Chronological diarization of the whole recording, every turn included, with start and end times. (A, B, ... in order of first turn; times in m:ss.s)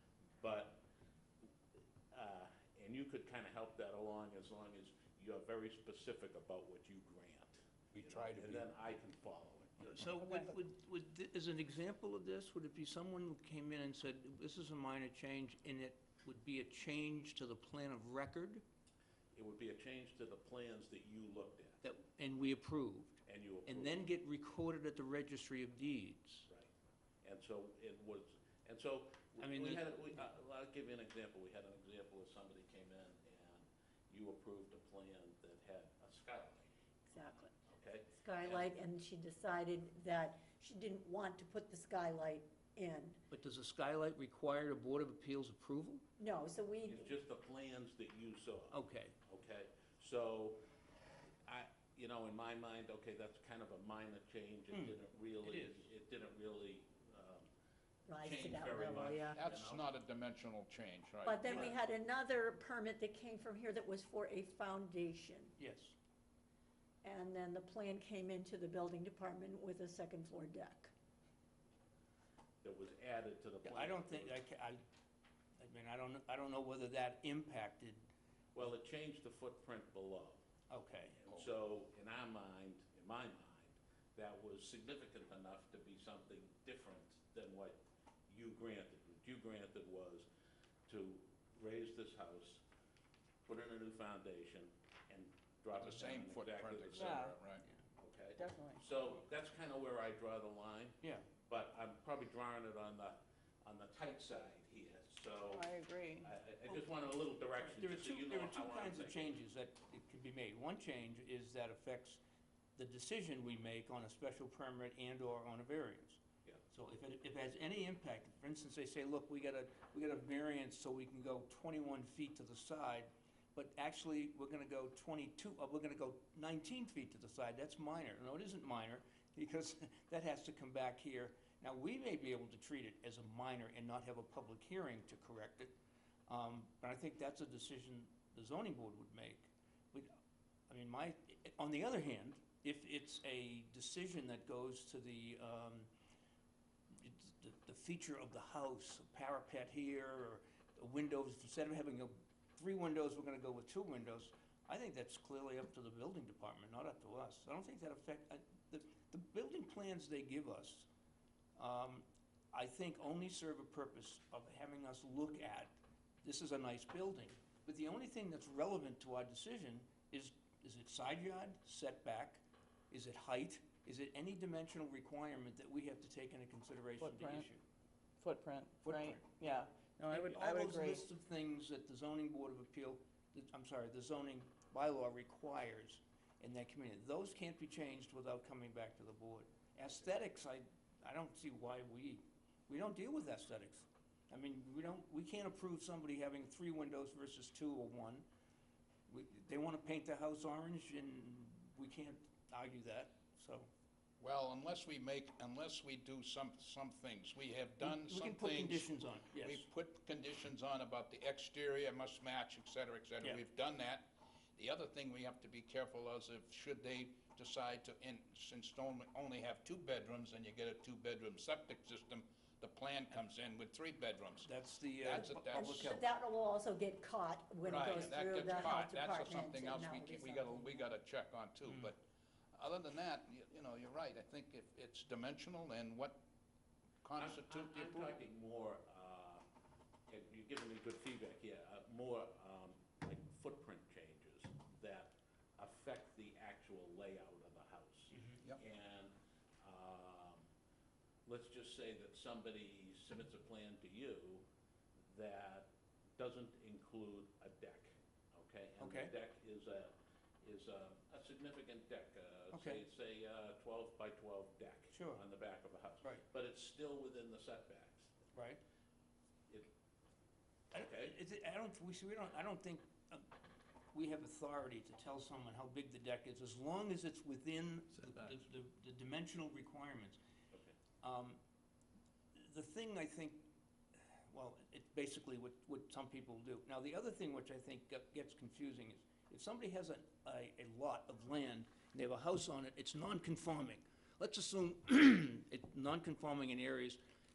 0:00.4-0:00.8 A
0:02.1-0:10.0 A
0:07.9-0:08.7 B
0:09.8-0:18.6 C
0:19.4-0:21.8 A
0:21.8-0:26.5 C
0:23.3-0:24.1 A
0:27.2-0:36.7 A
0:29.4-0:30.3 C
0:37.1-0:37.5 D
0:37.6-0:38.7 A
0:38.2-0:43.2 D
0:43.3-0:46.0 C
0:46.2-0:47.1 D
0:46.9-0:50.6 A
0:48.7-0:49.1 C
0:51.5-0:57.5 A
0:54.7-0:55.9 C
0:58.1-0:59.4 D
0:58.2-0:59.8 A
0:59.3-1:01.7 B
1:01.2-1:05.5 D
1:01.5-1:01.7 A
1:05.6-1:06.0 C
1:07.0-1:10.9 D
1:12.6-1:14.4 A
1:13.6-1:14.8 C
1:15.6-1:18.0 C
1:18.6-1:20.4 A
1:20.7-1:21.2 C
1:21.2-1:30.3 A
1:30.9-1:32.6 A
1:33.5-1:37.3 A
1:35.8-1:37.6 B
1:36.9-1:37.4 E
1:38.0-1:49.3 A
1:38.4-1:38.8 E
1:45.5-1:46.3 E
1:46.7-1:46.9 C
1:47.6-1:52.2 C
1:52.8-2:15.7 C
2:16.3-2:20.1 C
2:20.7-2:25.9 C
2:26.9-2:40.9 C
2:41.6-2:57.6 C
2:57.0-2:57.5 E
2:58.2-3:01.1 E
2:58.8-3:18.2 C
3:19.1-3:23.7 C
3:24.2-3:46.0 B
3:27.8-3:29.7 C
3:44.4-3:46.0 C
3:45.3-3:50.9 D
3:47.6-3:52.0 B
3:52.5-3:56.2 B
3:57.0-3:58.2 B
3:57.2-3:59.4 A
4:00.1-4:10.4 A
4:11.3-4:14.5 A
4:15.1-4:28.1 A
4:18.8-4:19.1 C
4:22.5-4:22.8 C
4:24.9-4:25.2 C
4:28.3-4:28.6 C
4:30.7-4:33.3 C
4:30.7-4:31.1 A
4:33.9-4:40.2 C
4:41.0-4:41.4 C
4:42.4-4:43.5 C
4:44.3-4:57.0 C